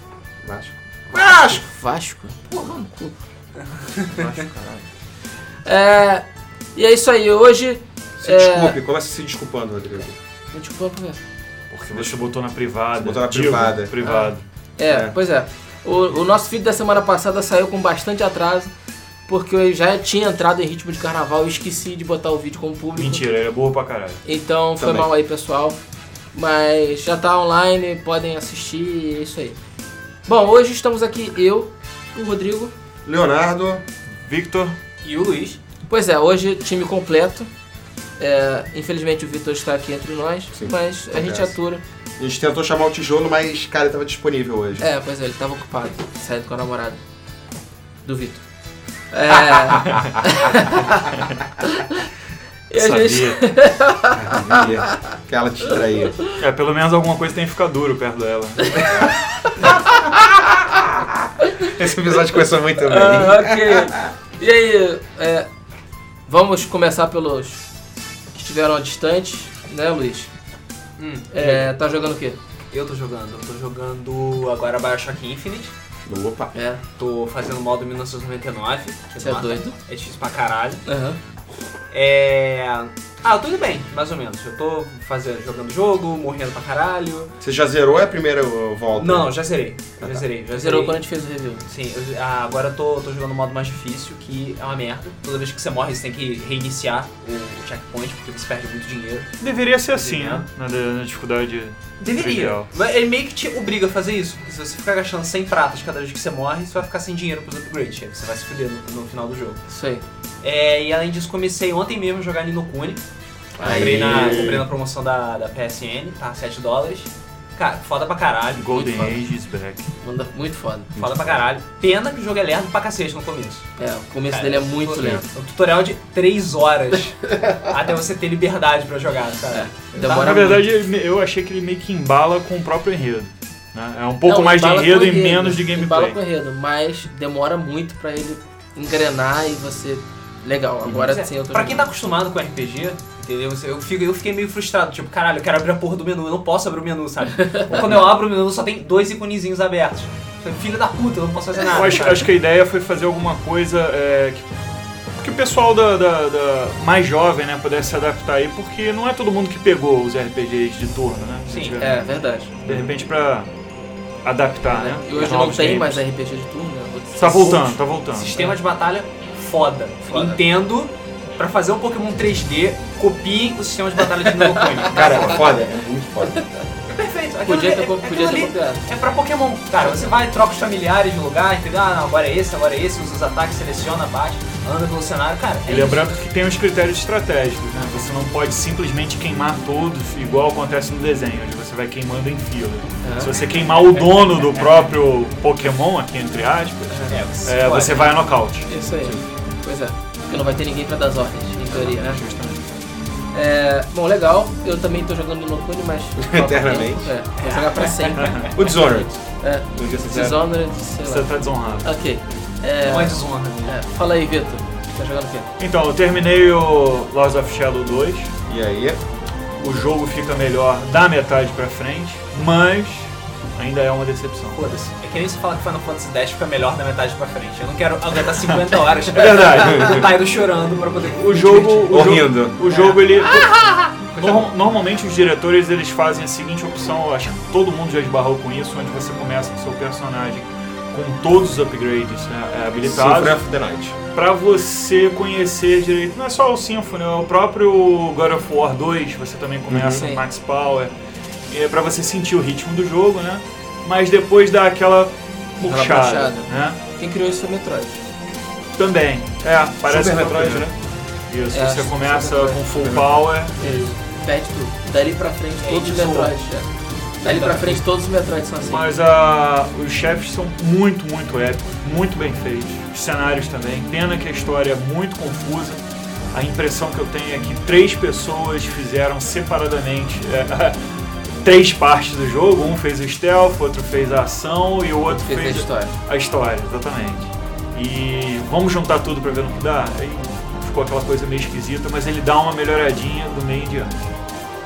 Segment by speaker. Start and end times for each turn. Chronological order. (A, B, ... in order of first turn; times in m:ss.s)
0:00.4-0:01.6 A
0:01.1-0:03.2 B
0:03.9-0:04.2 C
0:04.2-0:04.8 A
0:05.6-0:08.8 B
0:08.2-0:10.2 A
0:10.5-0:11.2 B
0:11.7-0:12.2 A
0:11.9-0:14.4 D
0:13.0-0:14.0 A
0:14.0-0:18.7 B
0:14.9-0:15.1 A
0:19.3-0:23.2 B
0:23.0-0:24.2 D
0:24.2-0:25.8 B
0:24.8-0:25.1 A
0:26.3-0:29.6 B
0:30.3-0:32.7 B
0:33.0-0:33.8 A
0:34.2-0:34.8 D
0:35.0-0:35.6 C
0:35.9-0:37.5 B
0:38.2-0:41.8 B
0:40.5-0:41.6 A
0:42.2-0:44.9 A
0:44.8-0:47.0 B
0:48.0-0:48.4 B
0:49.1-0:52.1 B
0:49.8-0:50.1 D
0:52.7-0:55.0 B
0:52.8-0:53.4 D
0:54.2-0:56.2 A
0:56.4-0:59.1 D
0:59.8-1:04.1 A
1:02.8-1:05.5 B
1:06.3-1:07.6 B
1:08.4-1:10.3 B
1:11.0-1:11.7 C
1:11.3-1:12.4 B
1:12.7-1:15.7 C
1:16.1-1:16.5 A
1:16.5-1:16.8 B
1:17.0-1:20.8 C
1:19.2-1:19.8 B
1:20.9-1:21.2 B
1:21.9-1:27.3 C
1:27.4-1:29.3 A
1:29.0-1:31.0 C
1:30.5-1:31.6 B
1:31.7-1:39.4 C
1:39.4-1:42.7 D
1:39.9-1:40.5 C
1:42.0-1:49.6 C
1:49.7-1:50.0 B
1:50.4-1:53.0 C
1:53.6-1:54.7 A
1:53.6-1:58.7 C
1:53.7-1:54.6 D
1:58.6-1:59.9 D
1:58.7-1:59.2 B
2:00.0-2:00.9 B
2:01.0-2:01.3 A
2:01.0-2:03.6 C
2:03.8-2:05.3 B
2:04.3-2:09.8 C
2:09.5-2:10.7 B
2:10.0-2:16.2 D
2:14.2-2:21.9 B
2:20.9-2:32.3 C
2:27.4-2:27.8 B
2:31.7-2:34.5 D
2:35.2-2:42.0 D
2:41.5-2:41.8 C
2:41.8-2:42.5 B
2:42.6-2:43.5 D
2:42.7-2:43.0 A
2:44.2-2:46.0 D
2:44.7-2:47.8 B
2:47.2-2:48.5 D
2:47.4-2:55.5 C
2:50.1-2:50.4 B
2:54.9-2:56.4 A
2:56.9-3:06.1 C
2:57.4-2:58.9 B
2:59.8-3:00.1 B
3:05.7-3:18.7 D
3:05.7-3:06.1 B
3:13.0-3:13.3 B
3:17.1-3:18.2 C
3:18.7-3:22.2 B
3:21.7-3:22.6 D
3:23.3-3:28.8 B
3:26.2-3:27.1 A
3:27.4-3:28.5 C
3:28.5-3:29.2 A
3:29.4-3:31.3 B
3:29.8-3:30.4 A
3:31.0-3:31.9 D
3:31.8-3:35.5 B
3:32.8-3:33.8 C
3:35.6-3:38.3 D
3:38.5-3:39.0 A
3:39.6-3:44.7 D
3:44.6-3:54.5 C
3:49.1-3:50.1 D
3:49.6-3:50.1 A
3:51.3-4:03.4 D
3:51.9-3:52.6 A
4:02.8-4:04.0 A
4:04.1-4:10.9 D
4:09.7-4:10.0 A
4:09.9-4:10.2 B
4:11.5-4:16.8 D
4:15.6-4:18.0 B
4:18.8-4:20.7 D
4:19.8-4:20.8 A
4:21.3-4:23.9 D
4:21.5-4:22.6 B
4:22.8-4:23.3 A
4:23.6-4:26.7 B
4:25.6-4:26.4 C
4:27.2-4:28.9 B
4:27.2-4:27.8 C
4:28.6-4:35.8 D
4:36.3-4:40.8 D
4:41.4-4:54.1 D
4:45.3-4:45.9 B